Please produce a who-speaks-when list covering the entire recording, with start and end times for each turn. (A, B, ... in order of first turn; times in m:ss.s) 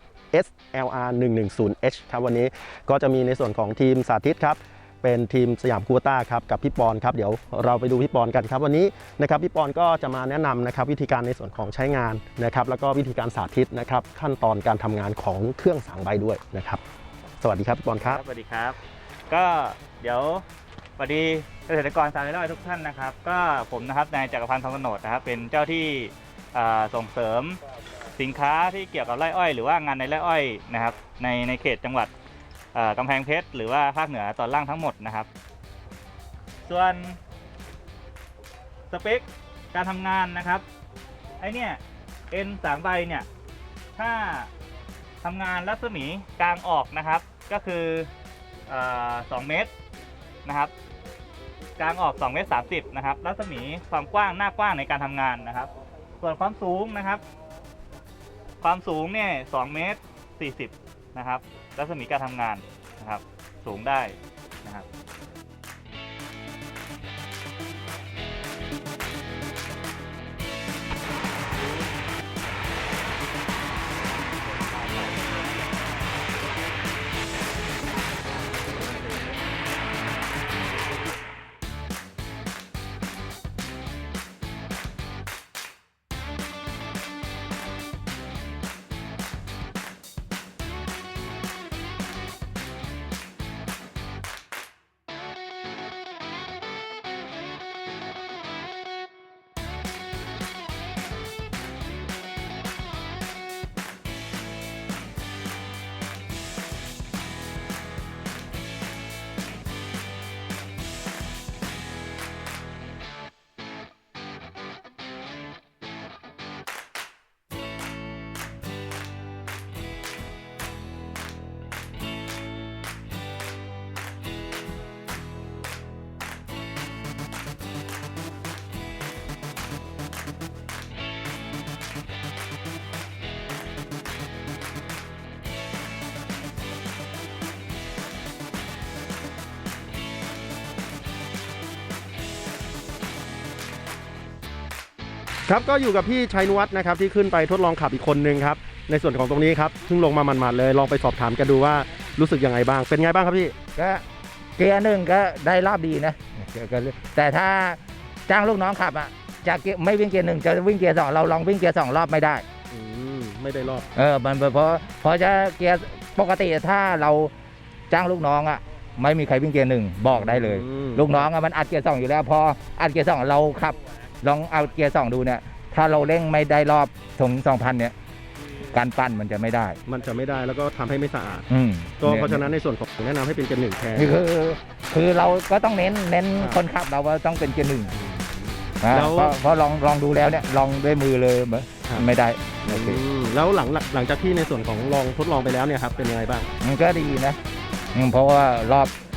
0:00.3-0:16.8 A
0:17.4-0:18.2 A
0:18.0-0:18.8 B
0:19.3-0:20.4 B
0:21.0-0:27.6 B
0:28.1-0:32.1 B
0:32.7-0:35.3 B
0:36.6-0:37.2 B
0:38.9-0:40.6 B
0:41.4-0:43.3 B
0:44.0-0:44.5 B
0:45.2-0:48.1 B
0:48.7-0:49.7 B
0:50.4-0:50.7 B
0:51.8-0:57.2 B
0:58.6-1:04.9 B
2:25.5-2:33.5 A
2:33.8-2:34.0 C
2:34.6-2:42.4 C
2:42.7-2:43.9 A
2:43.9-2:47.3 C
2:47.9-2:57.9 C
2:50.1-2:51.2 A
2:58.6-2:59.8 C
2:59.8-3:01.5 A
3:01.5-3:02.5 C
3:02.0-3:04.2 A
3:04.0-3:08.0 C
3:08.0-3:09.4 A
3:08.8-3:13.0 C
3:12.7-3:16.5 A
3:16.6-3:17.4 C
3:17.9-3:18.9 C